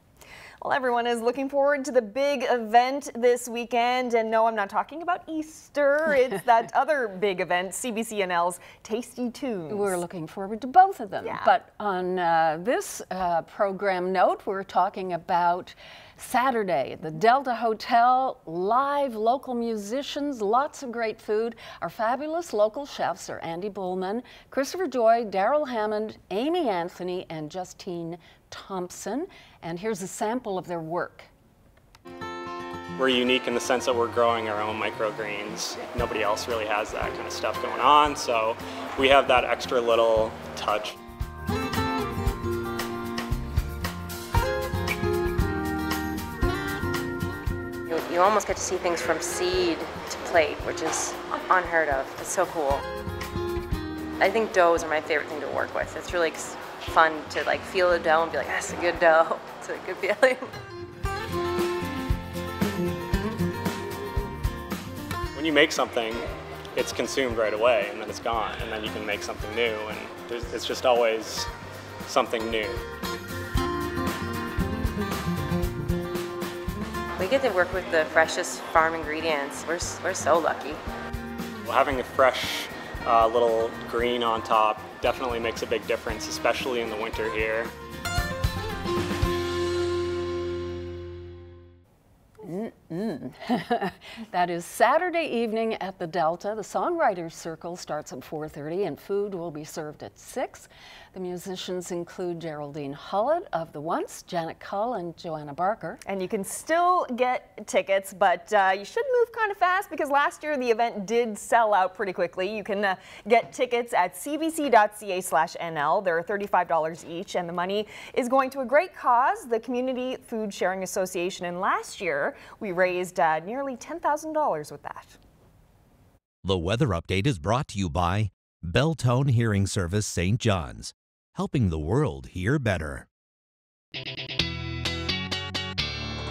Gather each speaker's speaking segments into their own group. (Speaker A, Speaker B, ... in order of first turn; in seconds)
Speaker A: 0.6-10.0, 11.2-11.5, 106.0-125.2
Speaker B: 9.7-31.3, 92.4-106.0
Speaker C: 33.0-40.9, 65.3-71.5, 72.1-72.8, 81.6-87.7
Speaker D: 47.9-52.8, 54.2-60.5, 77.2-80.8
Speaker E: 126.4-133.1